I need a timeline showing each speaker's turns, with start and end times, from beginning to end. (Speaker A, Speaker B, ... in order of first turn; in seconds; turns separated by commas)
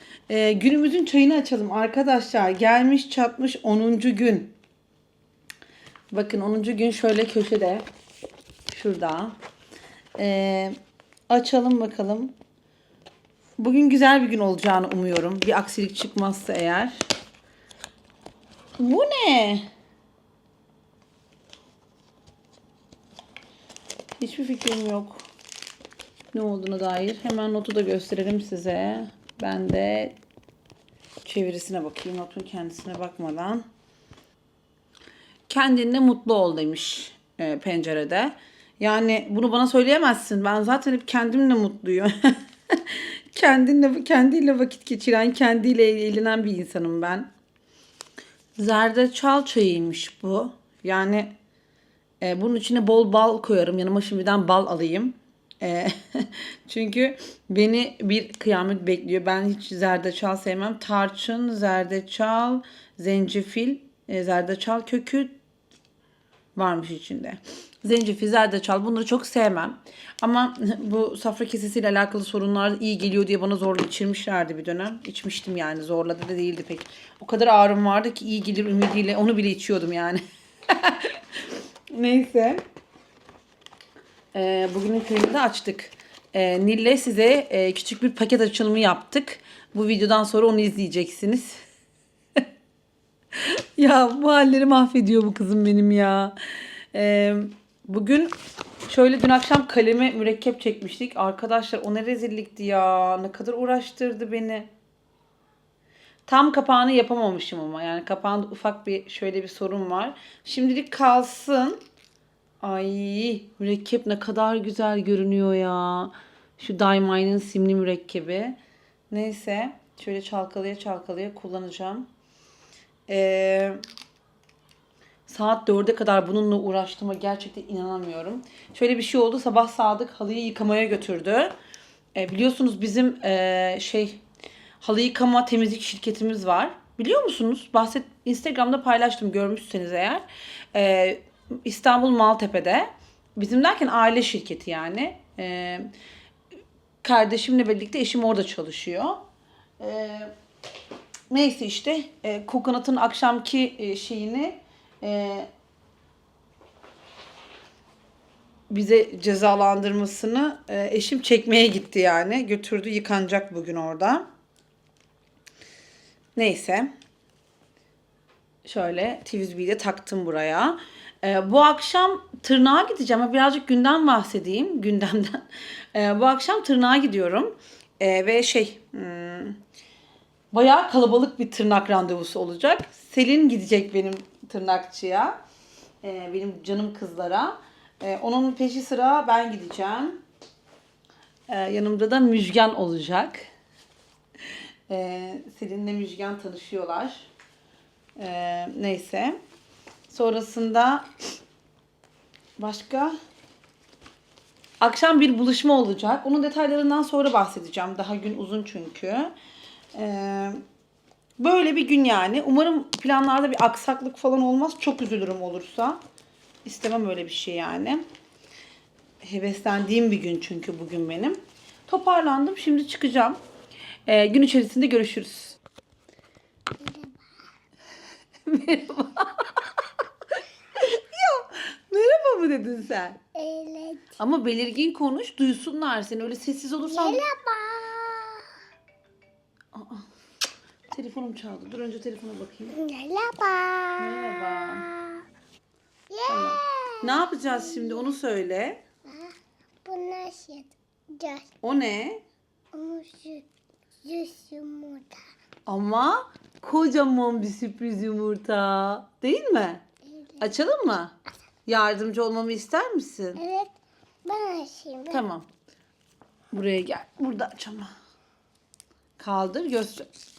Speaker A: 0.3-4.5, Speaker A: 6.1-7.8, Speaker A: 8.7-9.4, Speaker A: 10.2-10.8, Speaker A: 11.3-12.3, Speaker A: 13.6-17.1, Speaker A: 18.8-19.7, Speaker A: 24.2-25.3, Speaker A: 26.3-30.2, Speaker A: 31.2-33.7, Speaker A: 35.5-47.3, Speaker A: 48.6-51.4, Speaker A: 52.2-65.4, Speaker A: 66.5-81.2, Speaker A: 81.9-82.6, Speaker A: 84.3-91.6, Speaker A: 93.3-96.3, Speaker A: 96.9-98.3, Speaker A: 98.9-104.7, Speaker A: 106.3-111.8, Speaker A: 112.6-118.6, Speaker A: 119.1-122.1, Speaker A: 123.1-123.8, Speaker A: 125.3-131.6, Speaker A: 132.1-134.2, Speaker A: 134.8-145.9, Speaker A: 147.0-149.2, Speaker A: 149.8-150.3, Speaker A: 151.3-155.5, Speaker A: 158.7-164.3, Speaker A: 166.3-166.9, Speaker A: 168.6-179.6, Speaker A: 180.5-185.4, Speaker A: 186.0-190.2, Speaker A: 191.5-193.4, Speaker A: 194.9-197.3, Speaker A: 198.2-199.4, Speaker A: 200.1-201.1, Speaker A: 202.6-203.1, Speaker A: 204.8-209.3, Speaker A: 209.9-210.6, Speaker A: 211.4-216.0, Speaker A: 216.6-218.1, Speaker A: 219.2-223.4, Speaker A: 224.1-225.6, Speaker B: 226.8-227.3, Speaker A: 228.4-229.7, Speaker A: 230.7-233.2, Speaker B: 233.3-234.2, Speaker A: 234.2-237.2, Speaker B: 236.8-238.5, Speaker A: 239.7-240.1, Speaker A: 240.9-242.8, Speaker B: 242.7-245.2, Speaker A: 244.0-244.9, Speaker B: 246.1-248.0, Speaker A: 246.2-248.8, Speaker B: 249.1-251.5, Speaker A: 251.6-252.2, Speaker B: 252.7-253.4, Speaker B: 254.0-255.2, Speaker A: 255.7-259.8, Speaker B: 260.0-260.5, Speaker A: 260.4-263.4, Speaker B: 263.4-265.2, Speaker A: 265.1-265.5, Speaker A: 266.5-267.9, Speaker A: 269.2-270.1